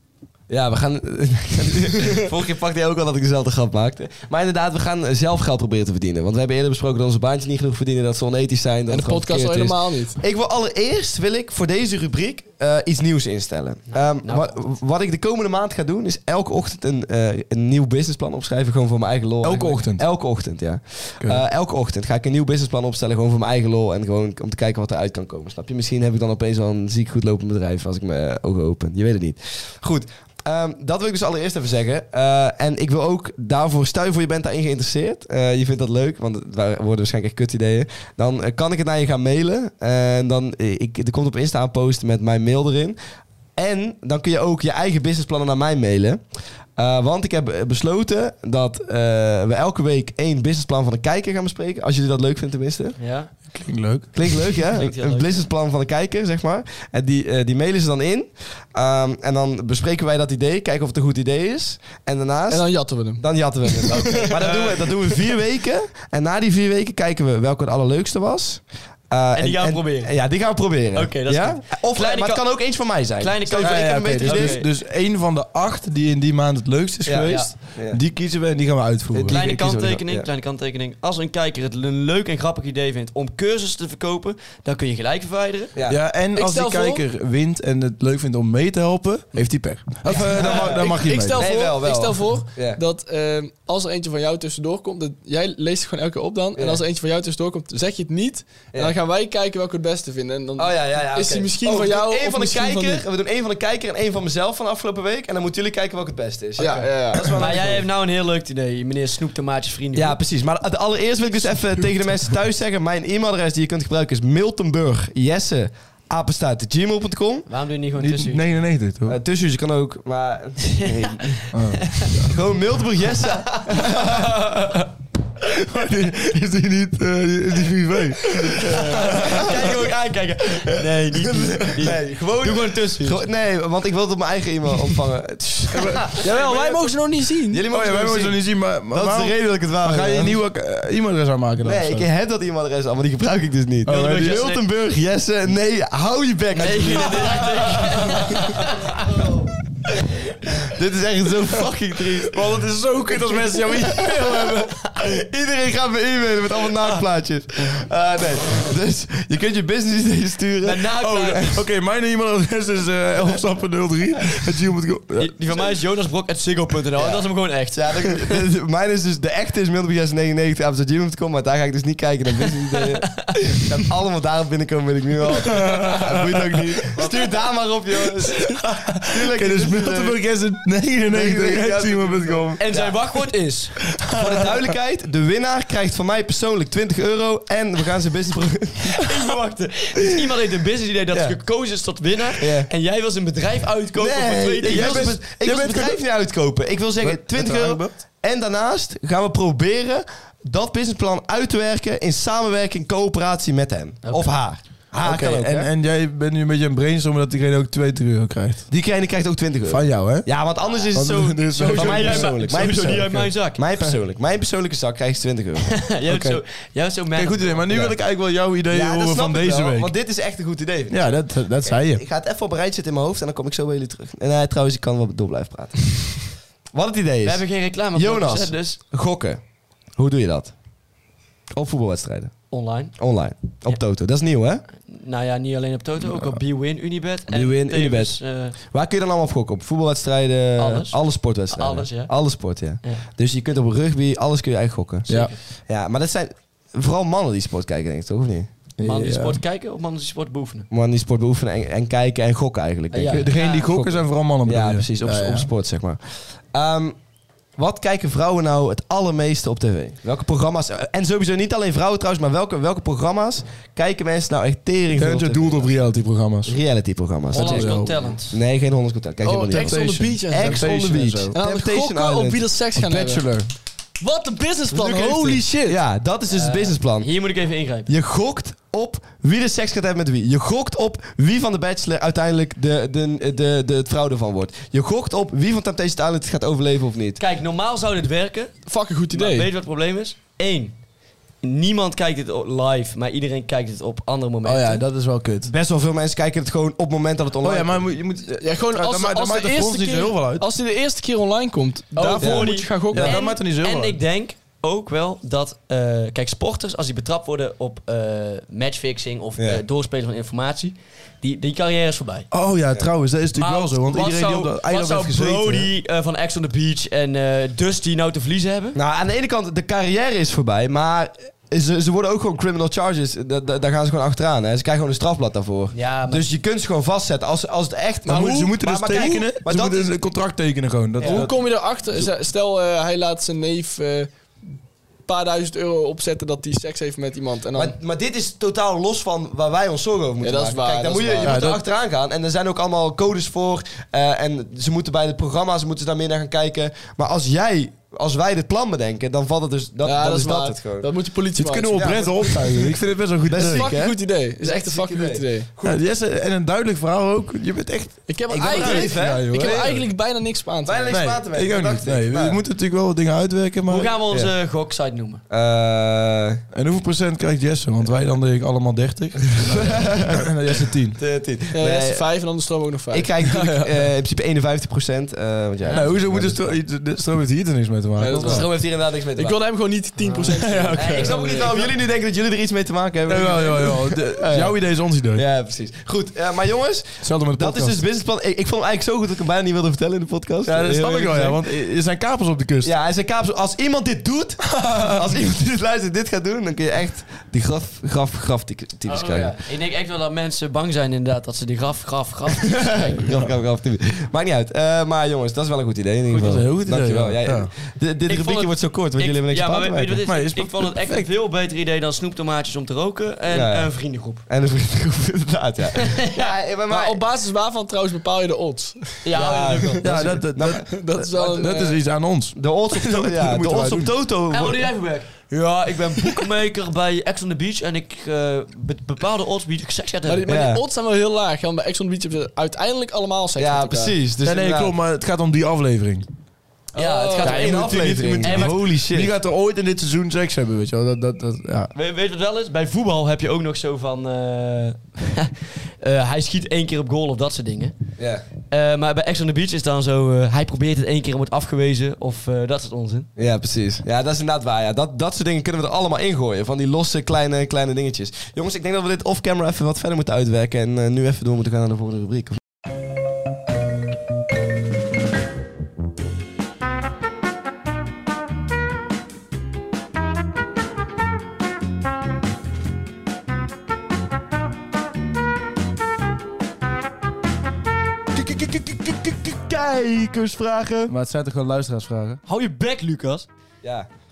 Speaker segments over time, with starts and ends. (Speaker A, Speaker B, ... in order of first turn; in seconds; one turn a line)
Speaker A: 0.5-43.0
Speaker B: 8.9-10.2
Speaker C: 14.2-14.6
Speaker D: 19.4-20.1
Speaker A: 43.5-46.2
Speaker A: 46.8-53.0
Speaker C: 53.0-53.3
Speaker D: 53.5-54.3
Speaker A: 54.1-74.6
Speaker C: 54.7-55.5
Speaker B: 62.5-64.4
Speaker C: 64.3-64.8
Speaker C: 69.3-70.3
Speaker C: 70.9-74.7
Speaker D: 73.5-79.4
Speaker A: 77.0-78.0
Speaker C: 77.2-77.5
Speaker A: 79.1-80.3
Speaker C: 79.3-85.7
Speaker A: 85.7-86.1
Speaker D: 85.8-91.4
Speaker B: 86.3-87.0
Speaker A: 90.1-92.8
Speaker B: 90.5-103.0
Speaker A: 96.6-96.8
Speaker A: 100.6-107.8
Speaker B: 106.6-107.4
Speaker C: 107.3-110.2
Speaker A: 109.9-117.5
Speaker C: 117.5-118.4
Speaker D: 118.0-119.2
Speaker A: 119.0-121.4
Speaker C: 120.8-122.1
Speaker D: 121.5-122.4
Speaker A: 122.2-124.4
Speaker D: 125.4-129.7
Speaker C: 128.7-133.2
Speaker A: 128.7-129.4
Speaker A: 131.3-136.8
Speaker D: 135.7-136.1
Speaker C: 136.1-136.9
Speaker B: 136.2-137.7
Speaker A: 137.5-140.4
Speaker D: 137.7-142.1
Speaker A: 141.6-149.5
Speaker D: 143.8-144.4
Speaker C: 143.9-144.6
Speaker C: 146.6-148.9
Speaker D: 147.2-148.2
Speaker A: 150.6-152.4
Speaker D: 152.3-154.8
Speaker A: 154.0-154.5
Speaker A: 155.0-160.9
Speaker C: 160.6-161.6
Speaker D: 161.0-165.3
Speaker C: 165.2-168.0
Speaker A: 166.9-180.2
Speaker D: 175.3-177.1
Speaker C: 177.0-177.3
Speaker D: 178.3-182.6
Speaker A: 181.1-182.9
Speaker C: 182.6-183.8
Speaker D: 184.1-184.6
Speaker A: 184.2-189.1
Speaker C: 189.0-195.9
Speaker A: 192.4-192.7
Speaker A: 194.0-205.7
Speaker D: 194.6-196.0
Speaker D: 197.0-198.0
Speaker C: 204.0-204.3
Speaker D: 205.0-208.7
Speaker A: 208.7-215.9
Speaker D: 209.6-210.3
Speaker C: 210.8-213.6
Speaker D: 210.9-213.3
Speaker C: 215.7-217.7
Speaker D: 216.1-216.4
Speaker D: 217.1-219.9
Speaker A: 217.7-217.9
Speaker A: 218.7-229.4
Speaker D: 220.9-222.0
Speaker C: 227.2-228.8
Speaker A: 229.9-230.5
Speaker A: 231.5-234.6
Speaker C: 232.5-233.0
Speaker C: 234.8-238.5
Speaker D: 236.1-236.4
Speaker A: 237.3-245.1
Speaker C: 240.6-242.1
Speaker C: 245.1-245.4
Speaker A: 245.7-248.5
Speaker D: 248.8-249.4
Speaker C: 248.8-250.7
Speaker A: 250.7-253.3
Speaker C: 252.9-254.0
Speaker D: 253.1-255.5
Speaker A: 254.4-257.0
Speaker A: 257.6-265.8
Speaker D: 264.9-266.6
Speaker A: 266.5-272.4
Speaker D: 267.3-268.1
Speaker C: 267.3-268.4
Speaker B: 269.2-270.7
Speaker D: 269.5-271.3
Speaker B: 271.3-273.2
Speaker D: 272.7-273.5
Speaker B: 274.0-275.8
Speaker A: 274.8-277.1
Speaker C: 276.3-277.9
Speaker A: 277.9-287.2
Speaker C: 287.2-290.8
Speaker B: 288.6-289.5
Speaker C: 291.4-294.9
Speaker D: 294.4-295.5
Speaker A: 295.4-298.0
Speaker D: 297.4-300.4
Speaker B: 298.4-303.1
Speaker D: 301.9-304.0
Speaker C: 302.2-312.3
Speaker A: 302.2-303.1
Speaker D: 312.3-315.7
Speaker C: 313.3-318.8
Speaker A: 318.7-329.9
Speaker C: 325.7-326.3
Speaker B: 328.0-329.2
Speaker D: 328.0-331.4
Speaker A: 331.0-331.3
Speaker B: 331.0-334.1
Speaker B: 335.1-337.7
Speaker A: 337.6-350.9
Speaker B: 340.2-341.5
Speaker D: 341.2-341.6
Speaker B: 349.8-352.5
Speaker D: 351.3-353.7
Speaker A: 353.3-355.8
Speaker B: 353.4-355.5
Speaker D: 355.6-359.9
Speaker B: 358.1-361.2
Speaker A: 358.3-359.6
Speaker A: 360.6-362.4
Speaker D: 360.9-363.9
Speaker C: 363.7-365.2
Speaker A: 365.3-366.4
Speaker D: 366.5-371.0
Speaker A: 369.4-370.2
Speaker A: 371.0-372.0
Speaker B: 371.5-373.1
Speaker A: 372.9-376.6
Speaker D: 373.2-373.9
Speaker D: 375.7-378.5
Speaker B: 378.0-381.5
Speaker A: 378.2-379.4
Speaker A: 380.1-384.6
Speaker D: 380.2-381.2
Speaker C: 380.7-381.7
Speaker D: 383.1-385.2
Speaker A: 385.1-391.4
Speaker D: 387.0-387.8
Speaker D: 390.4-392.7
Speaker A: 392.6-399.4
Speaker D: 394.6-394.9
Speaker C: 398.9-403.0
Speaker A: 402.4-410.0
Speaker D: 406.1-407.5
Speaker C: 408.1-414.2
Speaker D: 410.1-411.1
Speaker A: 413.3-417.0
Speaker C: 415.9-416.3
Speaker B: 416.6-419.2
Speaker C: 419.0-420.3
Speaker A: 419.1-421.6
Speaker D: 419.8-420.8
Speaker B: 420.5-421.8
Speaker D: 421.4-423.9
Speaker A: 422.3-424.7
Speaker C: 424.3-430.3
Speaker B: 430.1-434.0
Speaker A: 430.3-430.6
Speaker A: 433.4-434.7
Speaker D: 434.2-436.1
Speaker B: 436.7-437.6
Speaker C: 436.7-438.6
Speaker A: 437.2-439.1
Speaker D: 437.2-441.7
Speaker C: 441.7-447.8
Speaker A: 448.0-448.2
Speaker C: 448.5-453.1
Speaker A: 453.2-462.4
Speaker A: 478.1-480.9
Speaker D: 480.9-482.2
Speaker C: 482.2-483.3
Speaker A: 483.6-483.9